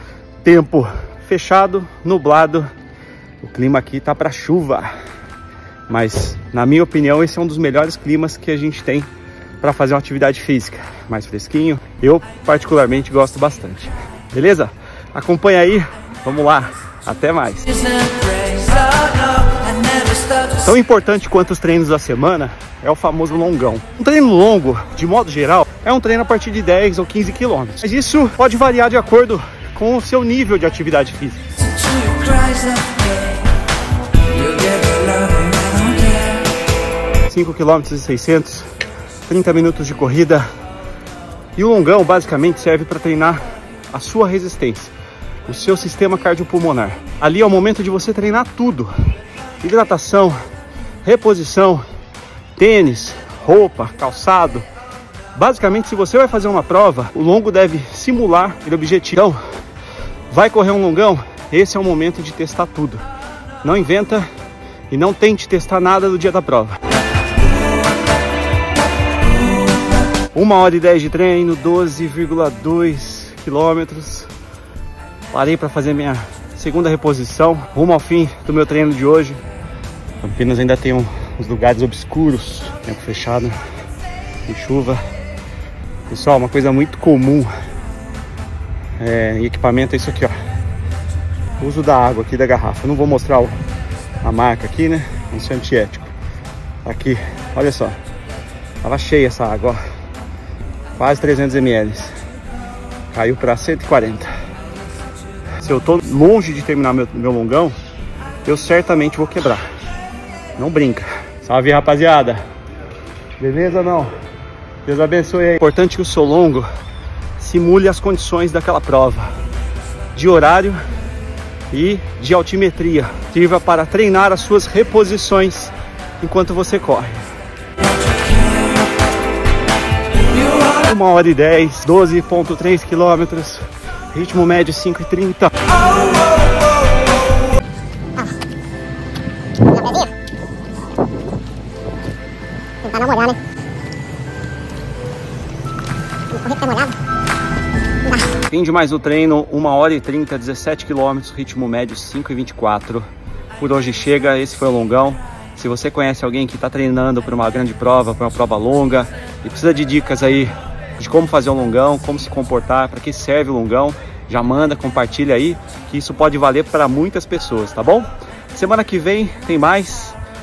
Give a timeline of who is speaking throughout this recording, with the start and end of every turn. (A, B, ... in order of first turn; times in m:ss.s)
0:00.4-0:02.7 A
0:03.4-0:04.9 A
0:05.9-0:09.1 A
0:09.6-0:18.1 A
0:18.4-0:18.8 B
0:20.4-0:31.7 A
0:31.9-0:33.1 B
0:34.3-0:36.3 B
0:37.3-0:38.7 A
0:39.3-0:40.4 A
0:41.6-0:44.9 A
0:45.4-0:48.9 A
0:49.6-0:50.4 A
0:51.0-0:51.8 A
0:52.6-0:54.6 A
0:55.3-0:59.4 A
1:00.3-1:03.0 A
1:03.6-1:04.2 A
1:04.9-1:06.8 A
1:10.3-1:14.3 A
1:15.3-1:19.4 A
1:20.2-1:23.6 A
1:24.4-1:25.0 A
1:26.1-1:27.5 A
1:29.0-1:30.3 A
1:31.6-1:33.6 A
1:34.2-1:36.1 A
1:36.8-1:38.0 A
1:38.8-1:39.8 A
1:41.0-1:42.1 A
1:43.1-1:44.3 A
1:45.6-1:47.7 A
1:48.4-1:49.6 A
1:50.6-1:52.4 A
1:53.4-1:54.1 A
1:54.8-1:56.6 A
1:57.4-1:59.3 A
2:00.1-2:00.8 A
2:01.7-2:07.2 A
2:10.7-2:15.7 A
2:19.7-2:20.1 B
2:22.8-2:23.4 B
2:26.3-2:26.9 B
2:28.4-2:50.2 A